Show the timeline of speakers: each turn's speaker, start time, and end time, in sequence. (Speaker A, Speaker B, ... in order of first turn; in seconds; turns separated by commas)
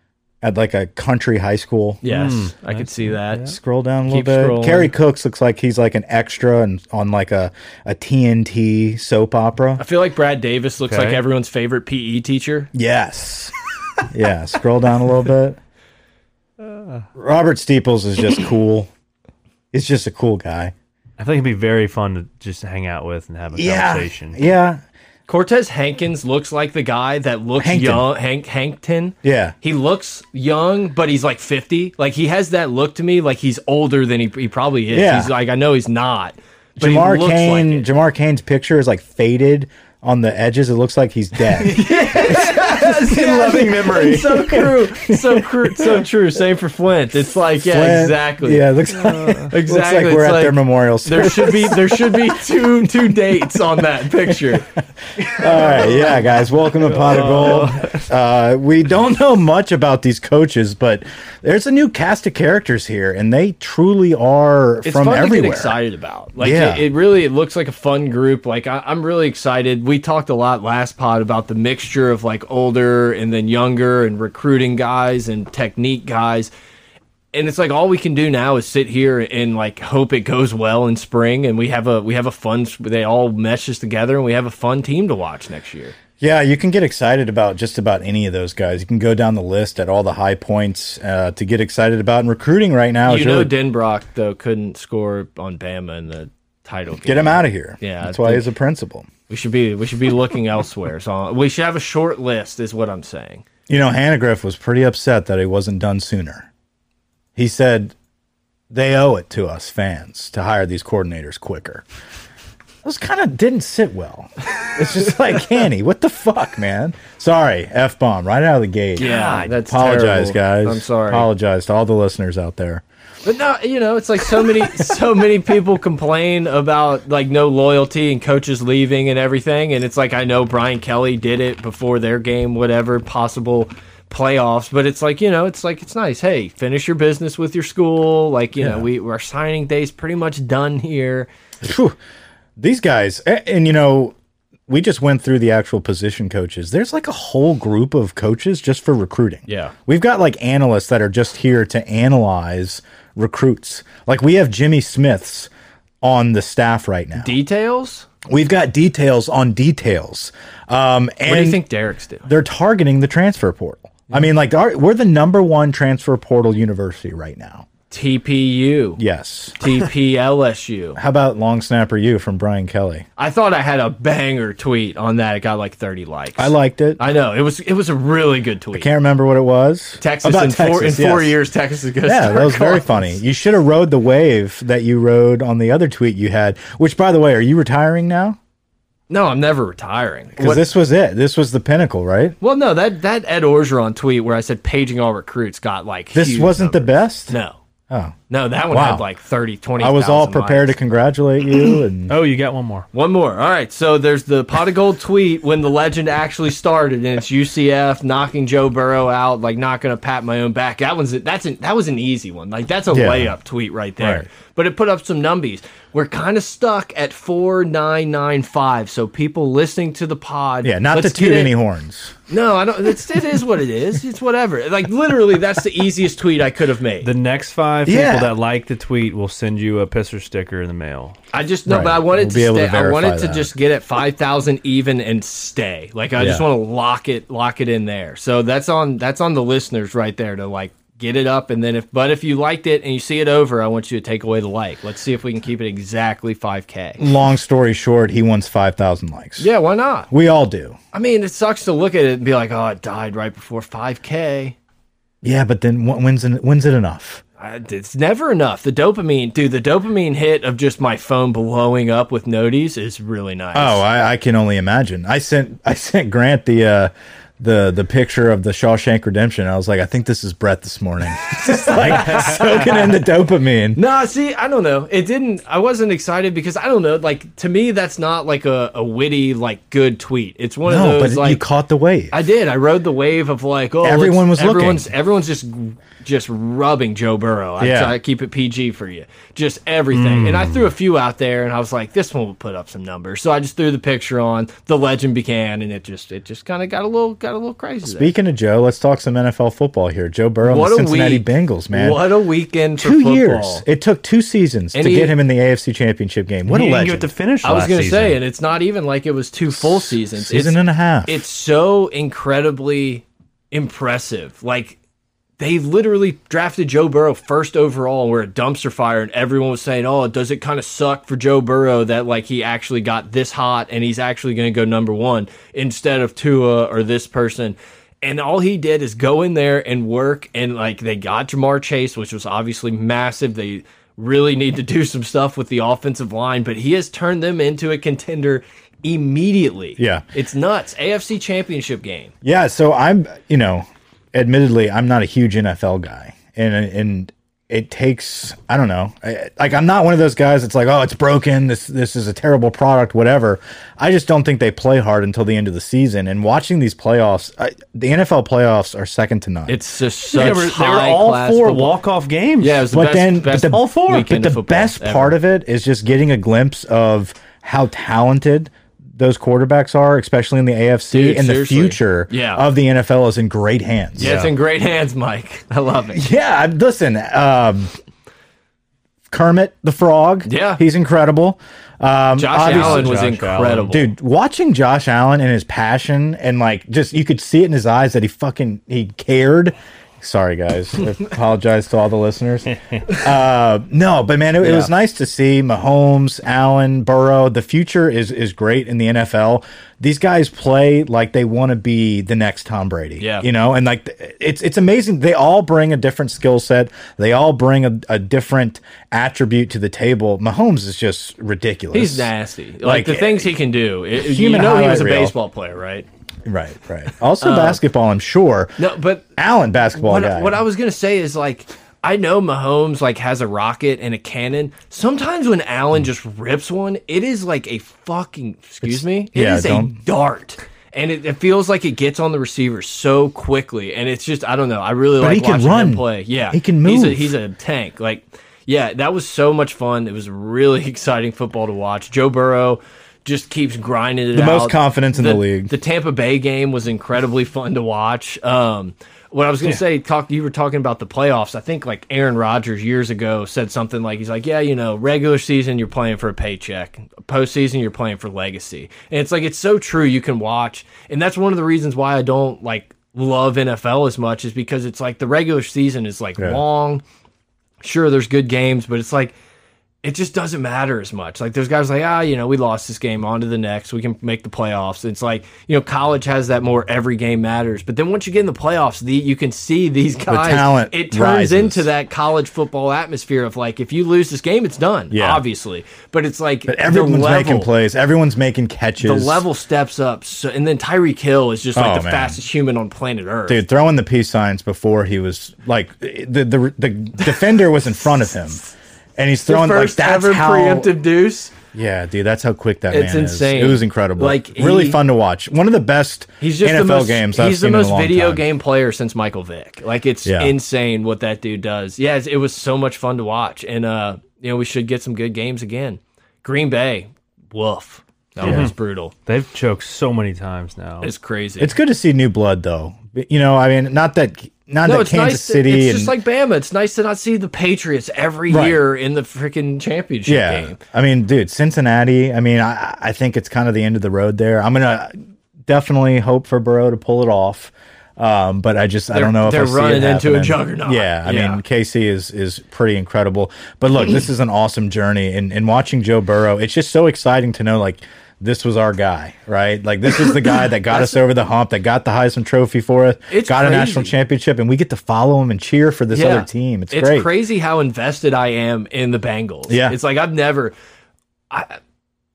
Speaker A: 0.4-2.0, Speaker B: 2.0-3.5, Speaker C: 2.1-3.5, Speaker A: 3.5-9.8, Speaker B: 4.1-4.9, Speaker B: 9.8-12.7, Speaker C: 10.8-11.2, Speaker A: 12.7-13.5, Speaker A: 14.1-15.6, Speaker C: 16.6-17.0, Speaker A: 17.1-18.9, Speaker A: 19.7-20.7, Speaker C: 21.2-24.4, Speaker A: 23.5-24.8, Speaker B: 25.3-37.9, Speaker A: 27.6-28.0, Speaker A: 29.2-29.5, Speaker A: 34.9-35.3, Speaker A: 36.8-46.0, Speaker C: 41.5-44.6, Speaker B: 41.7-48.7, Speaker A: 47.6-52.4, Speaker C: 49.0-49.5, Speaker B: 49.5-54.7, Speaker A: 54.3-65.8, Speaker B: 55.2-56.2, Speaker C: 55.4-58.1, Speaker B: 64.8-76.5, Speaker A: 66.4-66.8, Speaker B: 77.3-85.9, Speaker A: 86.2-93.5, Speaker B: 93.1-98.5, Speaker A: 97.0-99.1, Speaker B: 99.3-103.4, Speaker A: 103.7-106.5, Speaker A: 107.3-107.9, Speaker A: 108.7-111.8, Speaker A: 112.8-122.8, Speaker B: 119.0-121.3, Speaker C: 119.0-119.5, Speaker B: 123.2-141.3, Speaker A: 138.6-138.8, Speaker A: 141.6-141.9, Speaker A: 142.6-144.1, Speaker A: 144.7-155.5, Speaker B: 149.5-149.7, Speaker A: 156.0-157.3, Speaker B: 157.2-158.1, Speaker A: 158.3-161.6, Speaker B: 161.2-162.3, Speaker A: 162.2-167.7, Speaker B: 167.9-169.0, Speaker A: 169.0-169.6, Speaker B: 169.6-171.0, Speaker A: 170.9-173.1, Speaker B: 173.2-178.9, Speaker A: 176.4-177.0, Speaker A: 178.7-181.3, Speaker B: 180.0-183.1, Speaker A: 182.0-188.4, Speaker B: 189.1-190.7, Speaker A: 190.4-192.4, Speaker B: 192.4-197.6, Speaker A: 196.1-197.3, Speaker A: 197.9-198.1, Speaker B: 198.3-200.7, Speaker A: 198.7-199.0, Speaker A: 199.8-202.1, Speaker C: 202.1-202.9, Speaker B: 202.9-221.5, Speaker A: 212.9-213.3, Speaker A: 214.0-214.2, Speaker A: 220.6-222.2, Speaker B: 222.3-227.1, Speaker C: 227.0-231.2, Speaker A: 227.8-228.3, Speaker B: 231.3-247.1, Speaker A: 231.7-233.5, Speaker A: 236.2-236.4, Speaker A: 247.0-249.5, Speaker B: 249.4-250.1, Speaker A: 250.1-250.8, Speaker B: 250.9-254.6, Speaker A: 255.2-257.2, Speaker B: 257.4-263.8, Speaker A: 263.5-273.8, Speaker B: 271.4-273.0, Speaker B: 273.8-281.4, Speaker A: 280.6-282.1, Speaker B: 282.1-298.1, Speaker A: 283.8-284.9, Speaker A: 287.6-287.9, Speaker C: 289.9-290.7, Speaker A: 297.8-302.0, Speaker B: 300.4-303.6, Speaker A: 302.8-307.1, Speaker B: 304.7-305.1, Speaker C: 306.5-308.2, Speaker B: 307.4-314.8, Speaker A: 309.5-311.2, Speaker B: 315.4-342.1, Speaker A: 339.8-340.1, Speaker A: 342.2-359.6, Speaker B: 359.5-361.8, Speaker C: 360.0-362.6, Speaker B: 362.4-365.1, Speaker A: 362.7-374.1, Speaker C: 363.5-364.1, Speaker B: 370.9-372.4, Speaker C: 374.0-374.3, Speaker B: 374.0-376.0, Speaker A: 375.9-377.7, Speaker A: 379.1-383.0, Speaker B: 380.2-380.6, Speaker B: 382.2-383.9, Speaker C: 382.4-383.8, Speaker A: 383.7-412.1, Speaker C: 394.4-394.7, Speaker B: 403.0-403.3, Speaker B: 411.7-415.9, Speaker A: 412.6-413.3, Speaker A: 414.0-415.1, Speaker A: 416.2-418.6, Speaker B: 417.2-417.6, Speaker B: 418.6-419.1, Speaker A: 419.2-420.4, Speaker B: 419.8-466.8, Speaker A: 428.6-429.8, Speaker A: 435.0-437.1, Speaker A: 444.1-445.5, Speaker B: 467.6-469.1, Speaker B: 469.8-487.5, Speaker A: 480.1-481.7, Speaker A: 484.9-485.2, Speaker A: 486.5-489.2, Speaker B: 488.8-493.4, Speaker A: 491.5-492.2, Speaker A: 493.3-500.7, Speaker B: 497.0-498.2, Speaker B: 499.3-501.3, Speaker A: 501.5-508.2, Speaker B: 502.7-504.8, Speaker B: 506.2-518.9, Speaker A: 510.1-510.3, Speaker C: 518.2-520.9, Speaker B: 520.8-521.5, Speaker A: 521.4-525.9, Speaker B: 524.6-530.6, Speaker A: 528.3-528.6, Speaker A: 530.0-535.0, Speaker A: 535.5-557.1, Speaker B: 538.9-541.4, Speaker B: 553.1-553.9, Speaker B: 555.9-560.5, Speaker A: 559.5-559.8, Speaker B: 561.3-561.6